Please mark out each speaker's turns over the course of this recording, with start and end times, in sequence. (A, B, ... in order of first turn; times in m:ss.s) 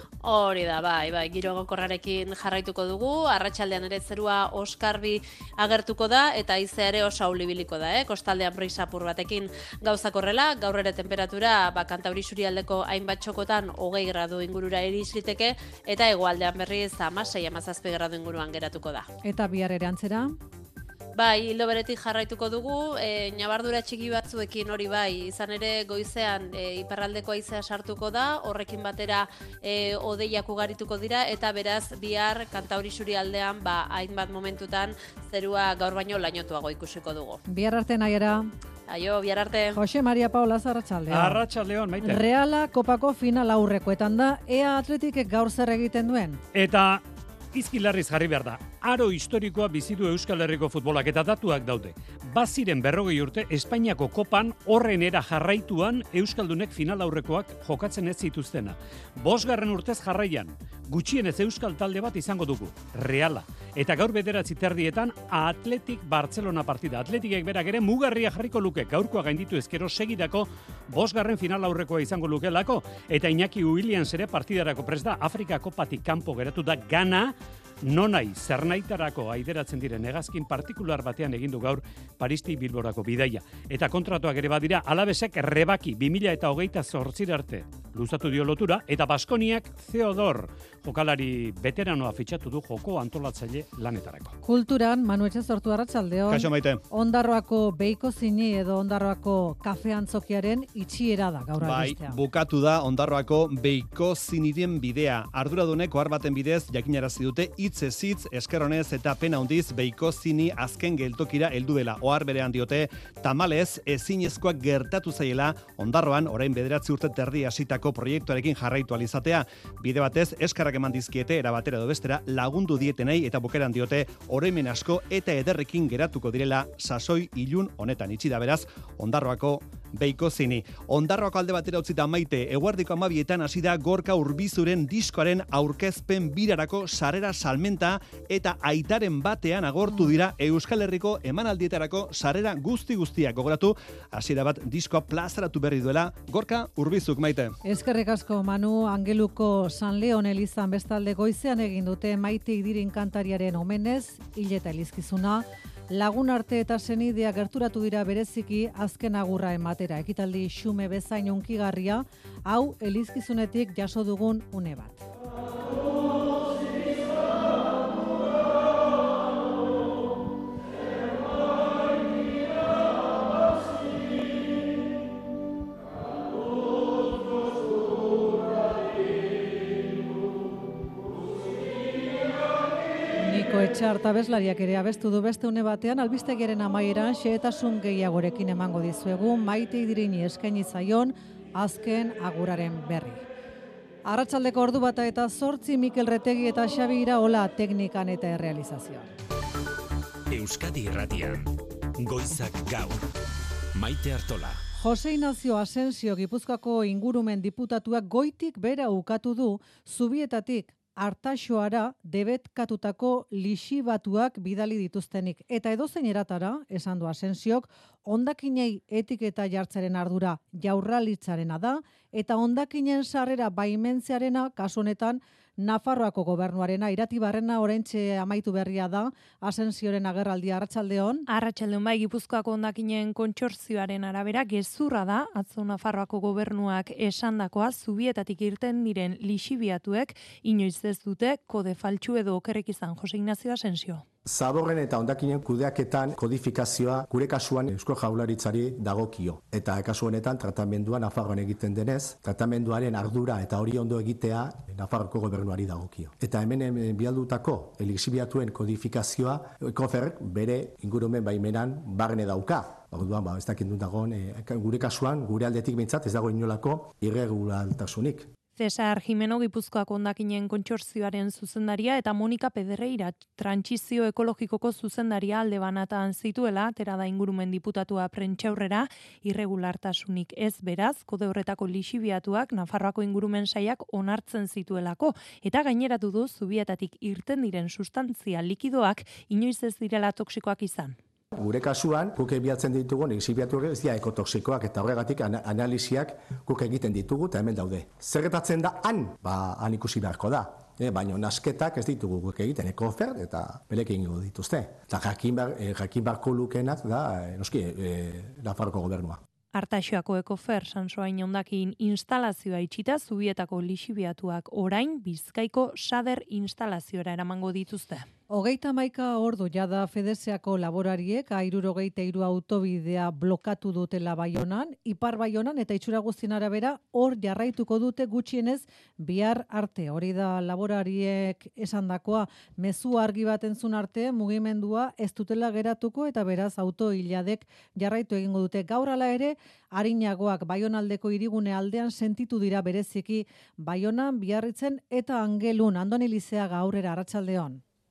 0:00.2-0:19.1 A
0:19.2-0:20.4 B
0:21.2-0:37.4 A
0:37.4-0:38.5 B
0:38.9-0:39.8 A
0:39.7-0:41.4 B
0:41.1-0:42.2 C
0:42.0-0:46.4 B
0:46.5-1:34.4 C
1:34.4-1:42.1 B
1:36.3-1:36.8 D
1:41.6-2:27.5 D
2:27.6-2:45.0 B
3:03.2-3:13.2 B
3:14.0-3:19.1 B
3:20.3-3:23.0 E
3:23.7-3:24.6 E
3:24.8-3:51.2 B
3:51.3-4:04.0 F
4:04.2-4:28.3 G
4:28.6-4:51.0 F
4:51.3-5:09.2 G
5:09.5-5:18.1 F
5:18.3-5:47.6 B